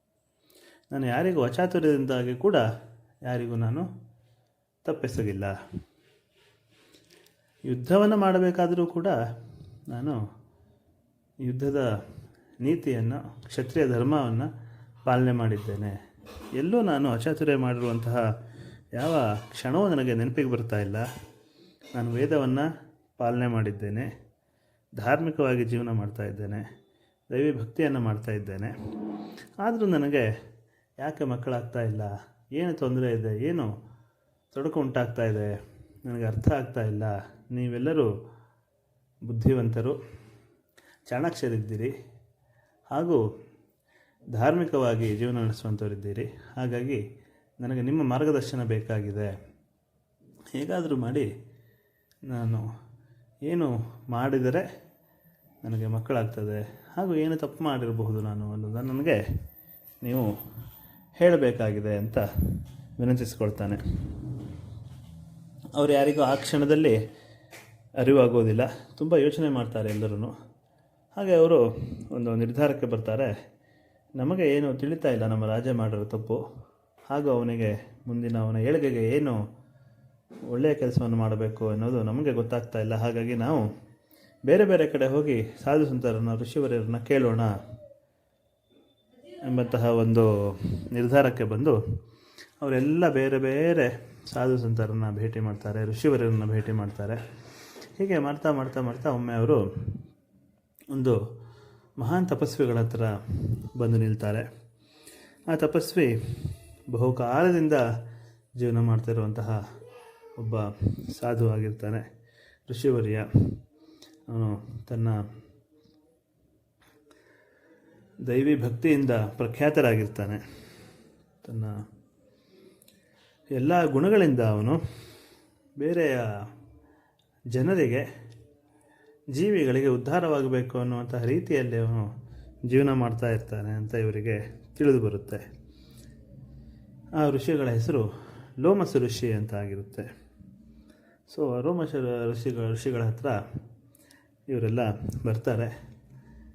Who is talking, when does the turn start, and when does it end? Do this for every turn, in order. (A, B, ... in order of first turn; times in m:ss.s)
0:00.9-0:02.6 A
0:03.3-0:03.9 A
0:04.8-0:05.6 A
0:07.7-0:09.2 A
0:09.9-0:10.2 A
0:11.4-0:11.9 A
0:12.6-0:14.5 A
0:15.1-0:16.0 A
0:16.6-0:18.2 A
0:19.0-0:21.1 A
0:22.0-0:22.7 A
0:23.2-0:24.1 A
0:25.0-0:26.7 A
0:27.3-0:28.7 A
0:29.6-0:30.3 A
0:31.0-0:33.7 A
0:34.5-0:35.6 A
0:36.1-0:38.1 A
0:39.3-0:40.0 A
0:41.1-0:41.9 A
0:42.9-0:43.2 A
0:44.4-0:47.0 A
0:47.6-0:49.3 A
0:50.6-0:51.3 A
0:52.3-0:52.7 A
0:53.5-0:54.6 A
0:55.6-0:59.2 A
1:00.0-1:00.3 A
1:01.2-1:02.2 A
1:03.0-1:03.8 A
1:05.8-1:07.0 A
1:08.0-1:10.3 A
1:11.2-1:13.3 A
1:14.2-1:16.4 A
1:17.1-1:19.4 A
1:20.5-1:23.6 A
1:24.5-1:27.5 A
1:29.4-1:31.8 A
1:32.6-1:37.2 A
1:38.0-1:39.6 A
1:40.9-1:41.2 A
1:42.0-1:43.1 A
1:43.7-1:44.5 A
1:45.5-1:47.9 A
1:48.6-1:49.6 A
1:50.4-1:52.1 A
1:52.7-1:53.3 A
1:54.3-1:55.2 A
1:58.3-2:00.4 A
2:01.4-2:01.8 A
2:03.6-2:04.8 A
2:05.8-2:06.3 A
2:07.5-2:08.1 A
2:09.3-2:12.1 A
2:12.7-2:15.4 A
2:17.2-2:18.1 A
2:18.6-2:20.1 A
2:21.3-2:23.4 A
2:24.5-2:25.7 A